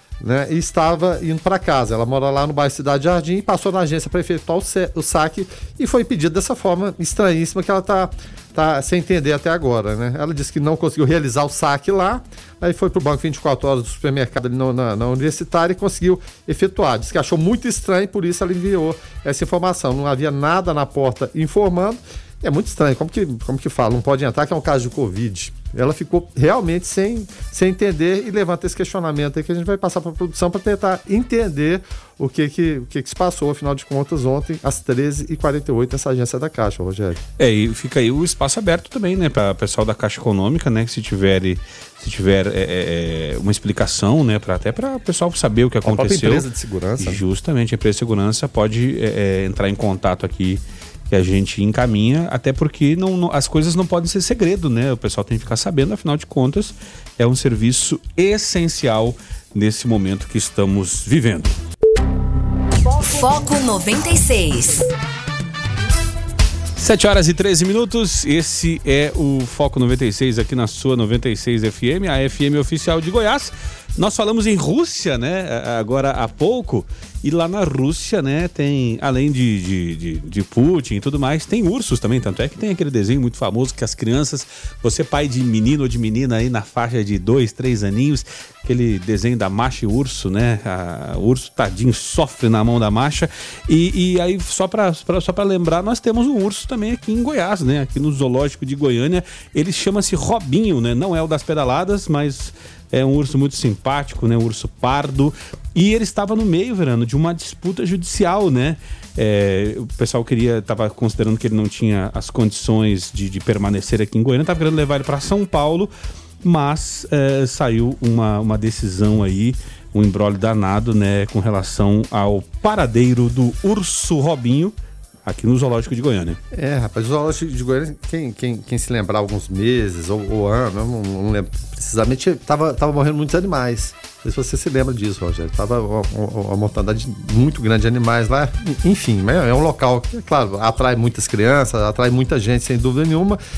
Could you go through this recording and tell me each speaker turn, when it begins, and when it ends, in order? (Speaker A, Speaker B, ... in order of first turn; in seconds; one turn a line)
Speaker A: 0.2-37.2
Speaker B: 37.4-46.5
Speaker A: 45.8-47.2
Speaker B: 47.0-61.6
Speaker C: 62.8-64.9
Speaker B: 66.8-115.9
Speaker B: 116.4-124.7
Speaker B: 125.3-126.4
Speaker A: 126.5-143.4